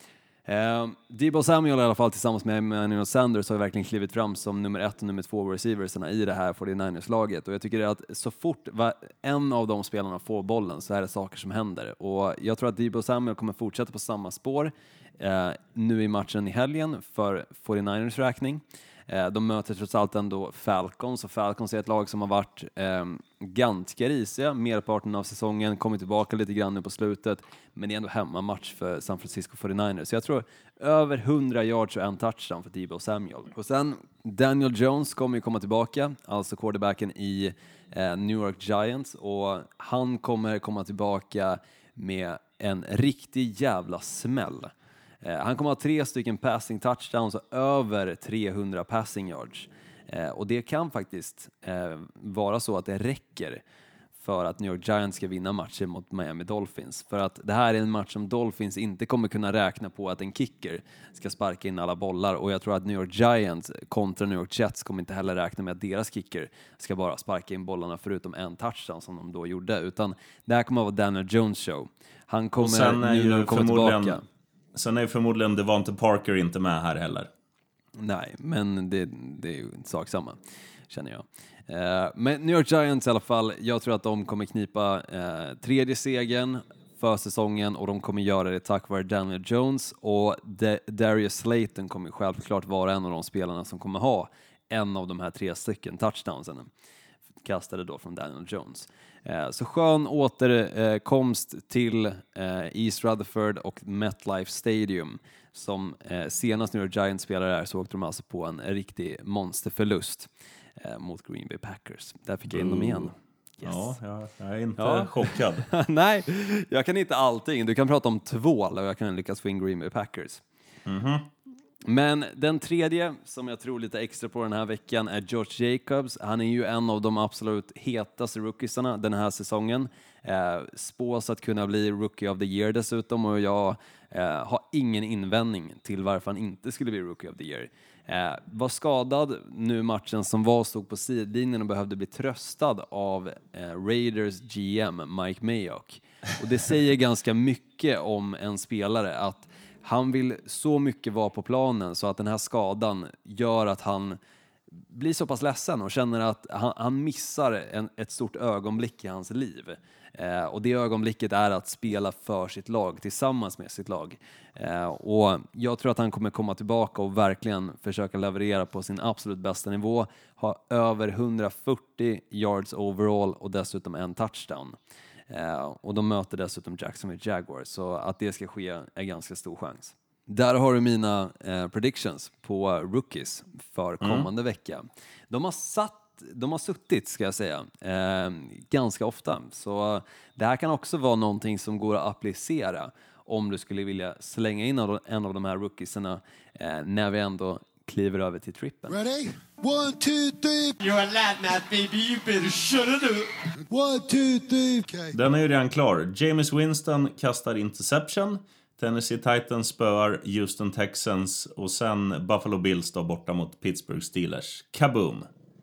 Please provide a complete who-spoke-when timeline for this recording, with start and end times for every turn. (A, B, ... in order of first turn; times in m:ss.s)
0:00.4-0:53.6 A
0:54.2-1:14.2 A
1:12.6-1:14.2 B
1:14.7-1:17.3 B
1:18.0-1:20.4 A
1:20.9-1:36.7 A
1:37.4-1:53.9 A
1:52.5-1:55.7 B
1:54.8-2:00.4 A
2:00.8-2:01.3 B
2:01.8-2:34.2 A
2:34.9-2:54.8 A
2:55.3-3:19.0 A
3:04.0-3:04.3 B
3:18.9-3:20.8 C
3:20.8-3:23.3 D
3:23.7-3:25.1 C
3:25.1-3:35.3 B